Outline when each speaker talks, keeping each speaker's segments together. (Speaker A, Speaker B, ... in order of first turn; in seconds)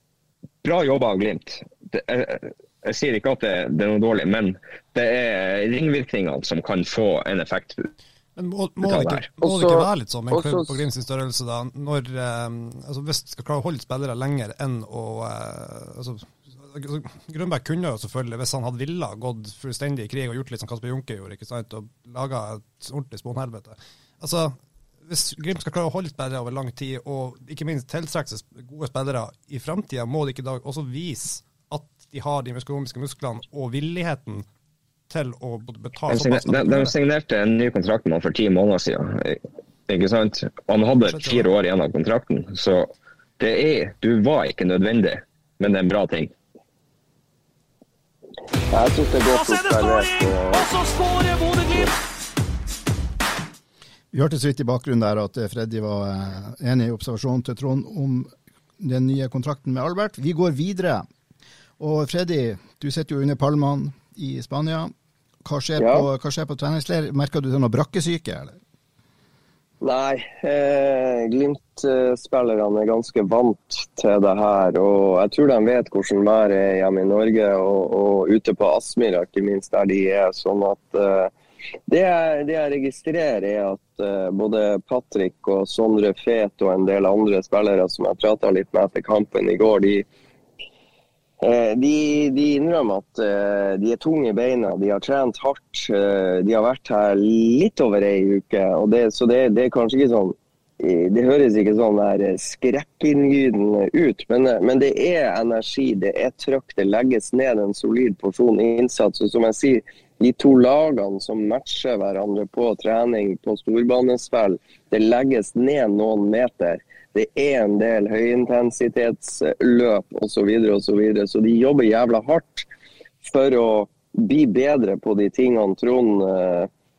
Speaker A: 0.6-7.9, 8.8-9.2, 36.1-46.3
Speaker B: 8.4-34.5, 35.1-36.9, 41.0-41.5
Speaker C: 9.4-10.8, 48.7-50.7, 65.8-66.1, 69.8-81.3, 81.9-90.1, 91.4-122.7, 123.2-126.7
Speaker D: 49.2-51.9
Speaker E: 54.1-61.1, 61.8-64.9, 65.5-68.6